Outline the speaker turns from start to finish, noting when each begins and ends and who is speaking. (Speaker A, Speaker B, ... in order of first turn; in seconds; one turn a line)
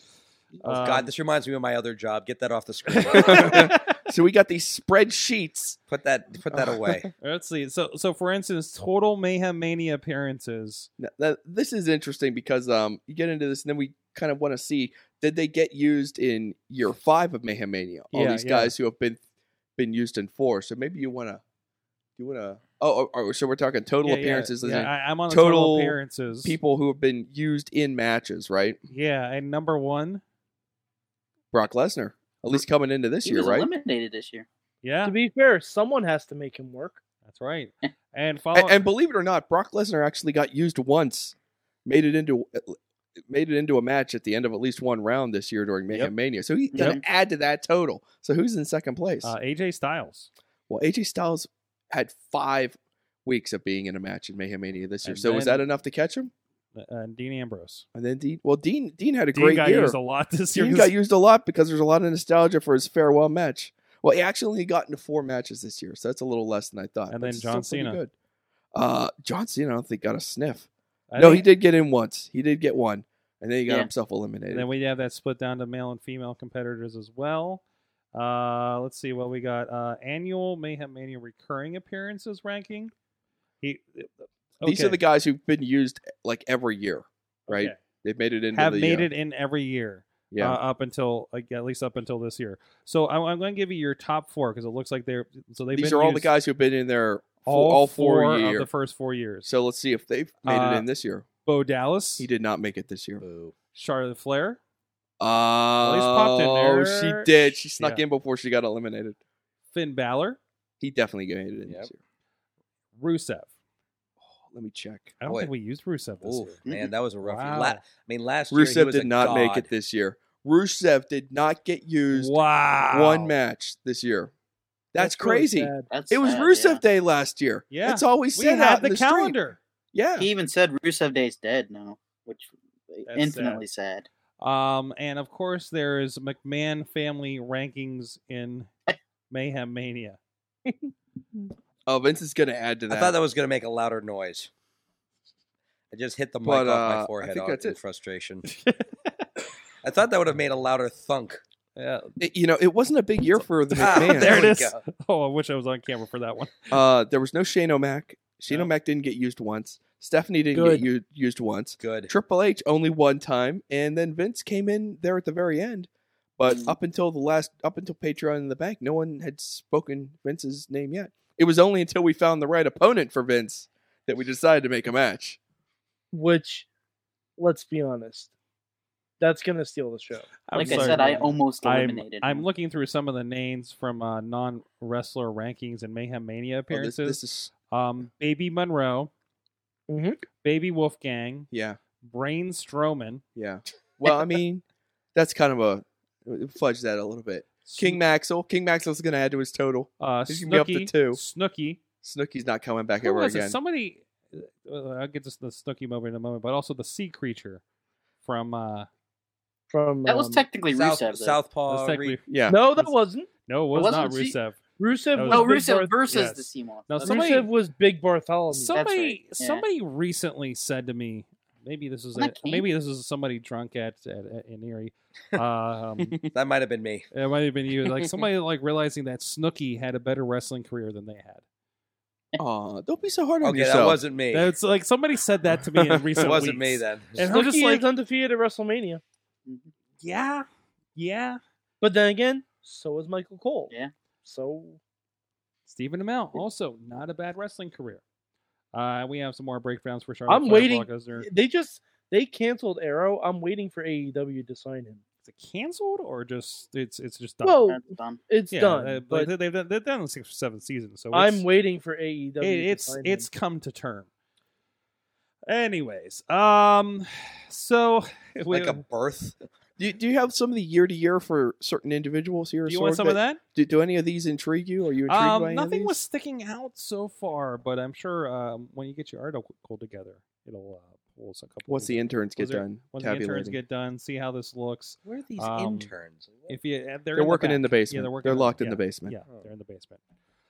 Speaker A: 0.6-3.7
Speaker B: 0.6-1.1
Speaker B: 2.9-3.8
Speaker C: 3.1-5.8
Speaker A: 5.9-7.1
Speaker C: 6.5-7.0
Speaker B: 7.2-10.9
Speaker C: 11.0-19.2
Speaker B: 18.1-18.7
Speaker C: 19.8-21.4
Speaker C: 22.2-28.8
Speaker B: 24.0-26.6
Speaker B: 28.9-30.2
Speaker C: 31.5-33.7
Speaker D: 33.2-34.5
Speaker B: 34.8-35.1
Speaker E: 35.0-37.0
Speaker B: 37.3-38.8
Speaker C: 38.5-41.3
Speaker C: 41.9-42.8
Speaker C: 43.3-49.3
Speaker D: 46.7-47.0
Speaker B: 49.2-50.3
Speaker C: 50.7-56.3
Speaker B: 55.0-55.6
Speaker B: 56.7-57.8
Speaker C: 57.9-60.0
Speaker B: 59.3-60.9
Speaker C: 60.5-68.1
Speaker B: 67.1-68.0
Speaker C: 68.7-74.7
Speaker B: 71.1-71.5
Speaker B: 74.5-77.6
Speaker B: 78.1-82.9
Speaker B: 83.6-85.0
Speaker C: 84.6-89.1
Speaker B: 87.5-87.8
Speaker B: 88.5-96.3
Speaker C: 90.3-90.6
Speaker C: 95.7-98.7
Speaker B: 97.4-99.5
Speaker C: 99.4-101.2
Speaker B: 100.4-100.9
Speaker B: 101.4-102.3
Speaker C: 102.2-103.2
Speaker A: 103.2-103.5
Speaker B: 103.7-104.6
Speaker C: 105.2-109.2
Speaker B: 105.8-108.0
Speaker B: 109.7-110.4
Speaker C: 110.8-112.0
Speaker A: 111.6-111.9
Speaker B: 113.0-113.5
Speaker C: 114.4-115.1
Speaker B: 115.2-116.6
Speaker A: 115.2-115.5
Speaker A: 116.2-119.7
Speaker B: 117.2-117.8
Speaker C: 118.5-122.3
Speaker B: 122.1-123.3
Speaker C: 122.9-124.3
Speaker C: 124.9-129.4
Speaker E: 125.0-125.9
Speaker D: 125.8-126.8
Speaker B: 127.7-129.6
Speaker C: 129.9-130.3
Speaker D: 130.2-134.1
Speaker B: 133.1-133.6
Speaker B: 134.4-138.7
Speaker B: 139.3-140.2
Speaker C: 141.9-143.1
Speaker A: 142.9-144.5
Speaker A: 145.9-148.4
Speaker C: 146.4-147.8
Speaker B: 148.4-148.9
Speaker A: 149.8-151.4
Speaker B: 151.8-152.1
Speaker C: 152.2-154.6
Speaker B: 153.3-156.8
Speaker A: 153.8-154.8
Speaker C: 156.7-175.4
Speaker E: 160.5-160.9
Speaker A: 161.8-162.1
Speaker D: 166.4-166.7
Speaker E: 176.1-176.7
Speaker E: 177.4-178.3
Speaker E: 179.2-181.2
Speaker B: 180.5-189.1
Speaker D: 180.5-182.4
Speaker C: 186.7-187.5
Speaker E: 189.9-190.2
Speaker B: 190.4-191.5
Speaker C: 191.5-191.8
Speaker B: 192.0-193.2
Speaker C: 193.4-194.6
Speaker C: 195.1-201.2
Speaker B: 197.7-198.0
Speaker B: 200.0-201.8
Speaker C: 202.0-203.6
Speaker B: 203.0-207.6
Speaker B: 208.2-208.9
Speaker E: 209.7-210.4
Speaker D: 210.1-211.4
Speaker A: 210.7-212.2
Speaker B: 211.7-212.9
Speaker C: 212.3-212.6
Speaker E: 212.5-213.3
Speaker B: 213.5-214.6
Speaker D: 213.7-214.1
Speaker E: 214.0-215.9
Speaker B: 215.1-217.5
Speaker D: 215.3-217.4
Speaker E: 217.0-218.8
Speaker B: 218.5-226.2
Speaker D: 218.7-219.6
Speaker D: 222.1-222.7
Speaker A: 226.3-227.1
Speaker B: 227.1-231.4
Speaker C: 232.4-234.0
Speaker A: 233.4-234.5
Speaker B: 234.3-237.8
Speaker C: 235.8-236.2
Speaker A: 236.2-237.4
Speaker E: 237.3-239.0
Speaker B: 240.0-240.4
Speaker B: 240.9-241.4
Speaker E: 241.8-243.7
Speaker E: 244.2-244.8
Speaker B: 245.7-248.0
Speaker B: 248.7-251.3
Speaker E: 250.3-255.0
Speaker B: 255.2-257.6
Speaker E: 257.4-259.3
Speaker D: 257.6-258.2
Speaker B: 258.5-261.4
Speaker E: 261.1-263.3
Speaker B: 262.4-264.1
Speaker B: 265.5-268.8
Speaker A: 268.5-269.4
Speaker C: 269.8-276.0
Speaker B: 272.6-273.4
Speaker B: 275.1-285.9
Speaker C: 281.6-283.6
Speaker A: 285.0-286.6
Speaker B: 286.5-290.0
Speaker C: 287.1-289.1